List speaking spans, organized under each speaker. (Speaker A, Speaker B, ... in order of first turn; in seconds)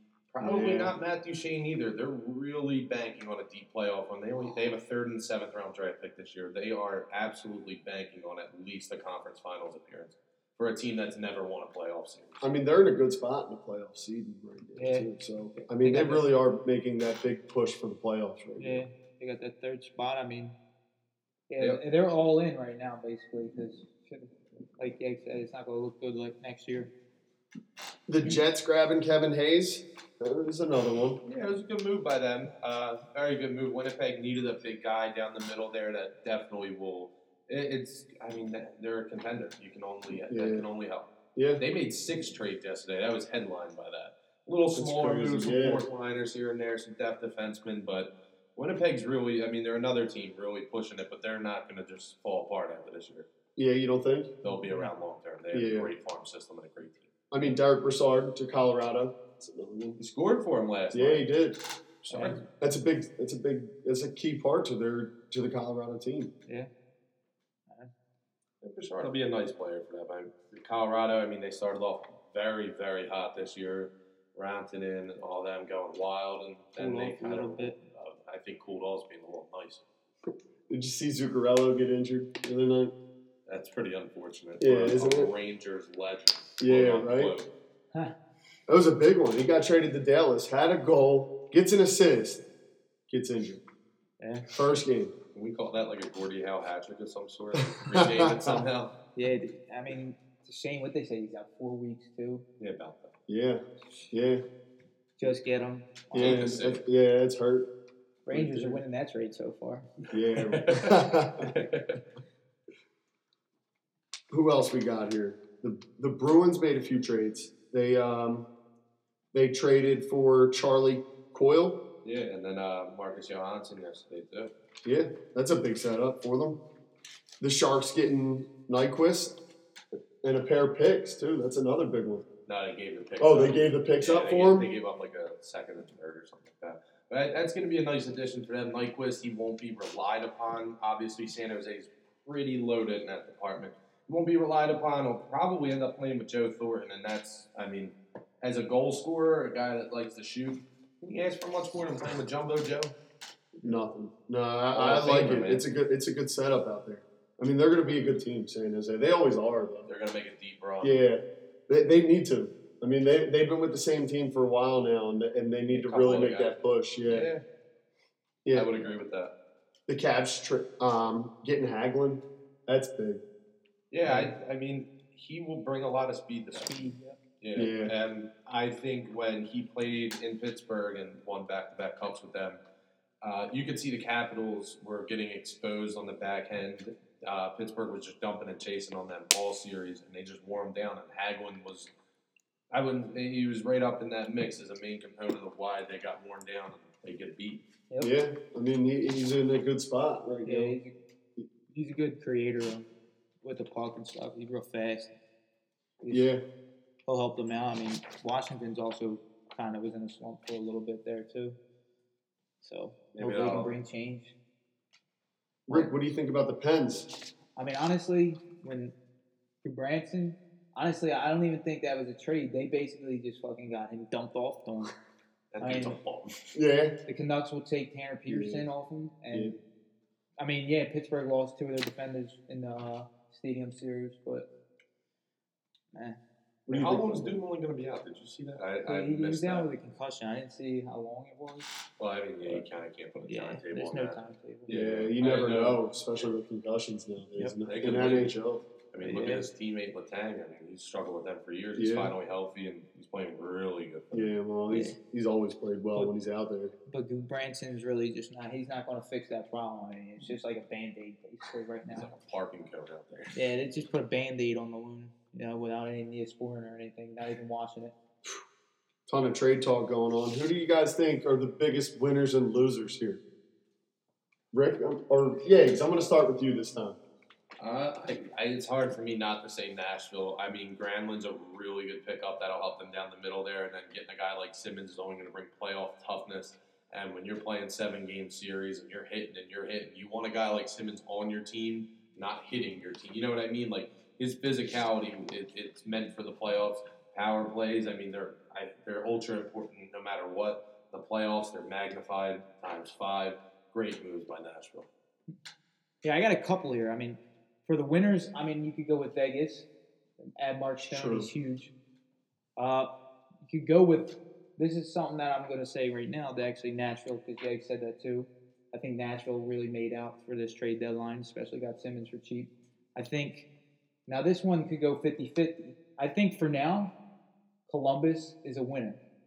Speaker A: 0.3-12.4, 31.2-53.3, 54.4-57.1, 60.0-61.3, 62.0-62.4, 68.6-79.8, 83.5-87.5, 95.3-98.9, 102.6-103.2, 106.1-106.8, 110.3-112.0, 122.0-124.5, 132.4-152.9, 154.7-155.7, 159.8-161.1, 165.8-167.4, 168.5-169.3, 173.9-182.6, 183.2-191.9, 192.7-197.7, 213.1-213.8, 225.5-226.3, 236.7-239.7, 242.0-245.8, 247.6-248.4, 248.9-254.4, 261.9-263.3, 277.6-304.9
Speaker B: 0.4-1.0, 12.4-18.8, 28.1-31.2, 40.3-40.7, 41.3-41.6, 44.8-45.9, 53.5-54.4, 55.5-55.9, 57.3-60.0, 60.9-61.6, 62.6-66.3, 80.7-82.9, 84.6-85.3, 86.6-87.3, 88.7-92.4, 93.1-93.6, 94.5-95.1, 97.5-98.6, 103.3-104.4, 106.1-107.7, 108.3-108.8, 110.1-111.5, 114.3-118.5, 119.3-121.8, 124.8-126.6, 127.4-129.4, 130.2-132.2, 133.2-134.7, 153.6-159.9, 160.8-167.3, 168.4-168.7, 169.9-173.2, 177.5-177.9, 198.0-200.8, 206.1-206.4, 215.7-217.1, 226.5-227.0, 228.3-228.7, 236.7-237.4, 244.7-248.7, 251.8-252.1, 254.1-256.8, 269.1-273.2, 274.5-277.0, 310.8-311.3
Speaker C: 14.8-16.4, 18.6-20.6, 21.5-26.9, 54.5-54.9, 62.1-62.5, 76.8-77.7, 94.2-94.5, 99.1-102.4, 103.8-104.1, 105.2-106.5, 108.2-109.9, 165.7-166.2, 174.0-174.3, 176.5-177.2, 200.4-201.0, 201.7-202.9, 203.4-205.1, 206.0-206.3, 207.1-211.6, 212.6-214.3, 217.6-218.9, 219.6-224.9, 225.6-226.0, 227.1-229.6, 230.4-234.5, 235.9-236.2, 238.8-241.7, 242.4-244.9, 249.0-249.4, 254.7-255.0, 256.9-262.1, 263.3-267.9, 306.0-309.7, 310.4-311.7, 312.6-312.9, 313.4-323.5, 324.1-326.9, 327.7-329.0